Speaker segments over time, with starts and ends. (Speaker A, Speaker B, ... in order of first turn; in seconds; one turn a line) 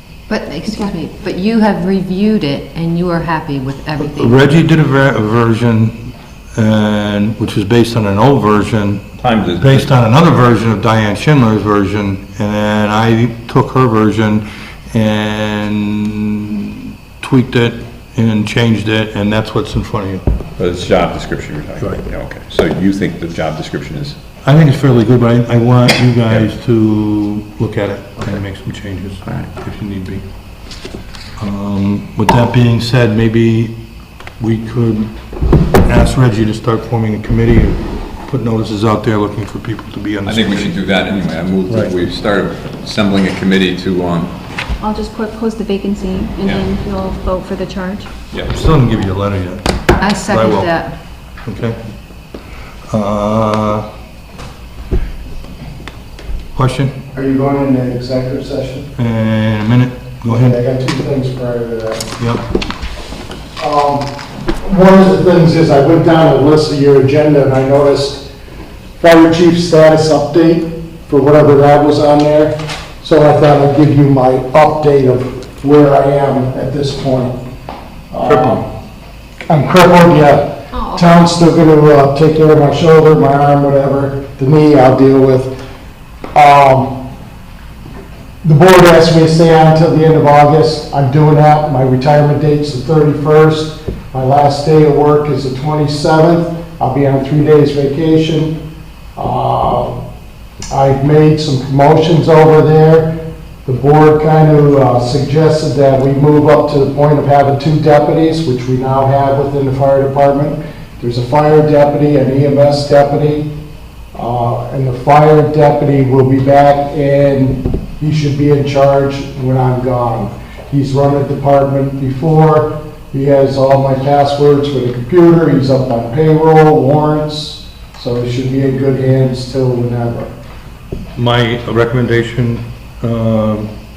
Speaker A: 0.3-4.5
Speaker B: 0.7-0.9
Speaker C: 4.0-20.2
Speaker D: 9.2-9.9
Speaker D: 20.6-24.2
Speaker C: 21.8-22.0
Speaker C: 24.4-30.2
Speaker D: 29.2-29.5
Speaker C: 31.4-33.8
Speaker C: 34.4-35.1
Speaker C: 35.8-40.8
Speaker D: 40.2-44.4
Speaker C: 41.7-42.0
Speaker B: 44.8-48.1
Speaker D: 48.3-48.6
Speaker C: 48.5-50.7
Speaker A: 50.0-50.9
Speaker C: 51.4-51.8
Speaker C: 52.9-53.9
Speaker C: 56.5-56.9
Speaker E: 57.1-58.9
Speaker C: 59.0-60.6
Speaker E: 60.3-62.1
Speaker C: 62.2-62.4
Speaker E: 63.6-68.3
Speaker E: 69.0-77.4
Speaker E: 78.1-78.7
Speaker C: 78.3-78.6
Speaker E: 79.5-85.5
Speaker E: 86.3-87.0
Speaker E: 88.4-98.6
Speaker E: 99.2-100.0
Speaker E: 100.7-103.1
Speaker E: 103.7-113.5
Speaker E: 114.1-130.3
Speaker C: 131.2-133.7